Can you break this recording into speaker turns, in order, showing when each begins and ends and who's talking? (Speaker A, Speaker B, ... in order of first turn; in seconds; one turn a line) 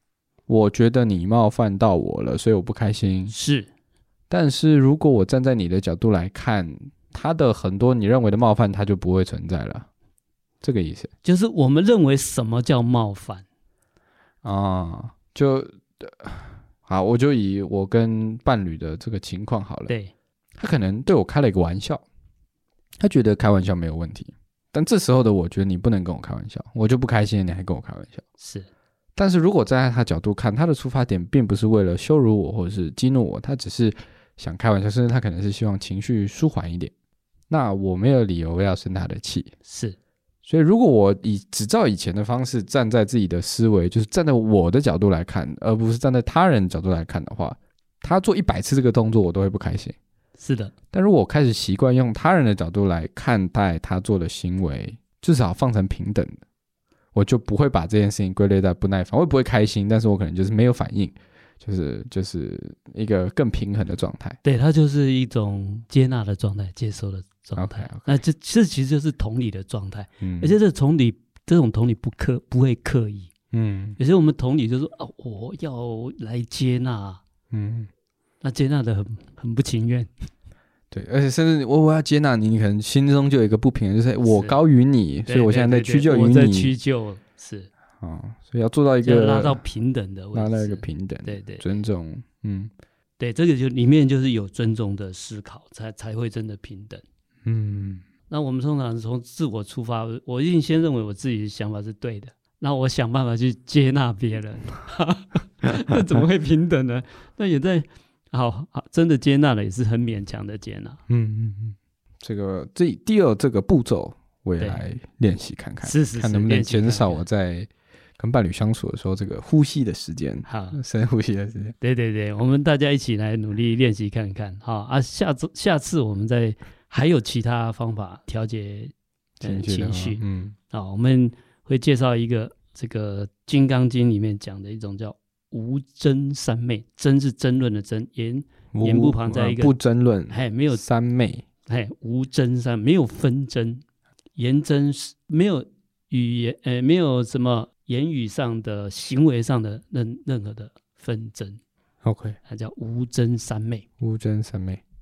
Speaker A: 0.5-3.3
Speaker B: 3.3-3.7
Speaker A: 4.3-9.9
Speaker A: 10.6-11.1
Speaker B: 11.2-13.4
Speaker A: 14.4-19.9
Speaker A: 20.6-22.0
Speaker A: 23.0-28.2
Speaker B: 28.4-28.7
Speaker A: 29.1-36.9
Speaker A: 37.5-39.5
Speaker B: 39.6-40.0
Speaker A: 40.4-50.0
Speaker B: 50.4-50.7
Speaker A: 50.9-56.4
Speaker A: 57.1-64.4
Speaker B: 64.4-73.3
Speaker A: 67.5-68.1
Speaker A: 70.2-70.5
Speaker A: 73.5-74.0
Speaker B: 74.0-77.2
Speaker A: 77.5-77.9
Speaker B: 78.4-80.1
Speaker A: 80.9-86.7
Speaker B: 84.2-84.6
Speaker B: 85.2-87.7
Speaker A: 88.0-89.6
Speaker B: 89.0-91.6
Speaker A: 90.3-92.7
Speaker B: 93.2-97.0
Speaker A: 97.4-98.0
Speaker B: 98.3-111.0
Speaker A: 111.1-121.8
Speaker B: 115.8-117.2
Speaker B: 120.5-120.8
Speaker B: 121.8-139.7
Speaker A: 129.4-130.6
Speaker A: 138.7-141.4
Speaker B: 140.3-140.8
Speaker B: 141.7-143.8
Speaker B: 144.4-151.6
Speaker A: 152.0-152.4
Speaker B: 152.5-153.8
Speaker A: 154.0-154.8